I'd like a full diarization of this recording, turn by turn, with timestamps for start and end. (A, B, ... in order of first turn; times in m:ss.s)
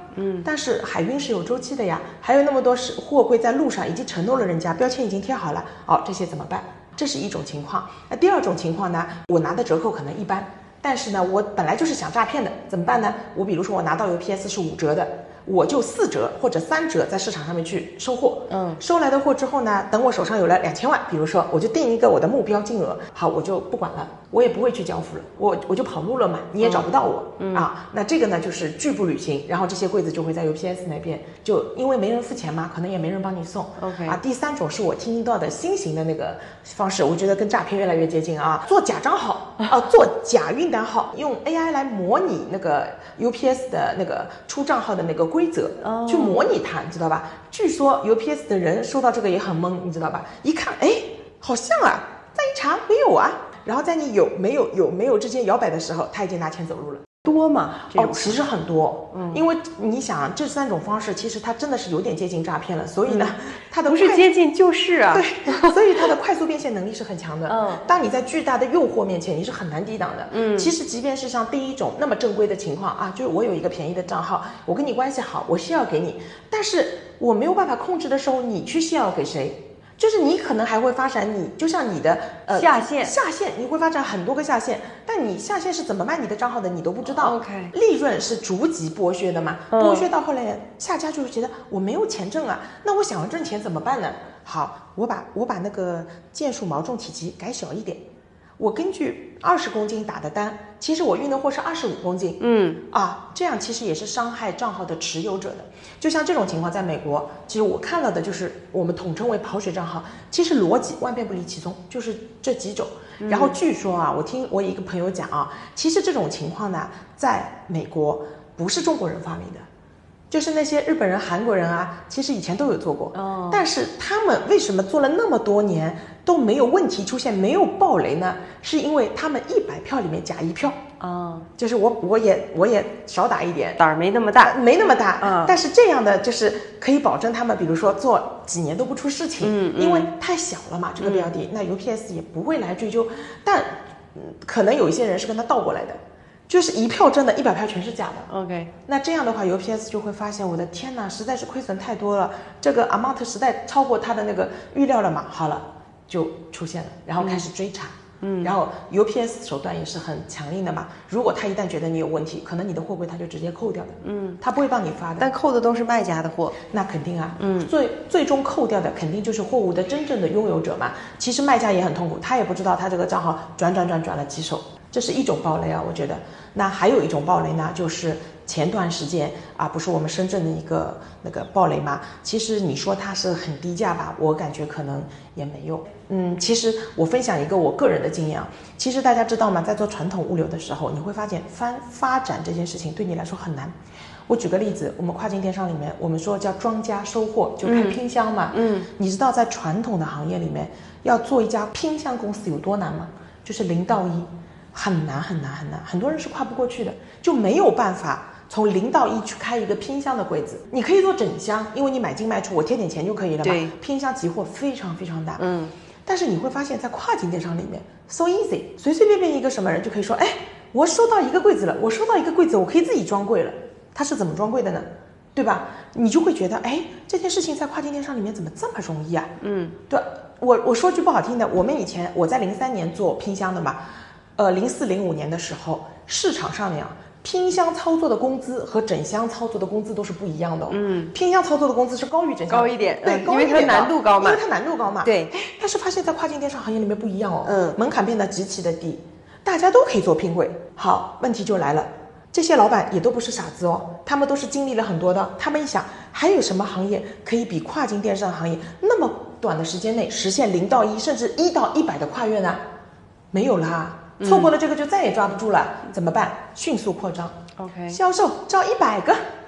0:00.1-0:00.4 A
0:00.4-0:57.1 B
0:18.5-0:18.8 A
0:26.6-0:26.9 A
0:27.4-0:27.6 A
0:33.8-0:34.2 A
0:45.8-0:46.4 A
0:57.2-0:58.4 A
0:57.9-1:04.3 B
0:59.1-0:59.4 A
1:03.1-1:03.3 A
1:03.8-1:05.8 A
1:05.1-1:38.0 B
1:07.5-1:07.8 A
1:10.3-1:10.7 A
1:22.5-1:23.1 A
1:27.0-1:27.7 A
1:29.7-1:30.1 A
1:38.6-1:59.6 B
1:42.4-1:42.8 A
1:53.2-1:53.6 A
2:00.3-2:10.8 B
2:03.1-2:03.6 A
2:11.0-2:11.5 A
2:11.6-2:13.8 B
2:13.8-2:14.6 A
2:14.4-2:28.3 B
2:15.2-2:15.6 A
2:19.4-2:20.1 A
2:21.0-2:21.3 A
2:28.3-2:28.7 A
2:28.9-2:45.3 B
2:37.2-2:37.4 A
2:38.2-2:38.5 A
2:44.0-2:44.4 A
2:45.2-2:46.6 A
2:46.6-3:13.7 B
2:47.4-2:47.7 A
3:14.3-3:35.4 B
3:17.6-3:18.0 A
3:18.5-3:18.9 A
3:33.4-3:33.7 A
3:35.4-3:35.7 A
3:36.0-3:49.3 B
3:49.4-3:49.8 A
3:49.9-3:53.8 B
3:54.4-4:22.6 B
4:00.7-4:01.1 A
4:02.5-4:04.4 A
4:05.0-4:05.3 A
4:07.4-4:07.8 A
4:23.3-4:27.4 B
4:24.2-4:24.5 A
4:27.6-4:28.0 A
4:27.9-4:29.2 B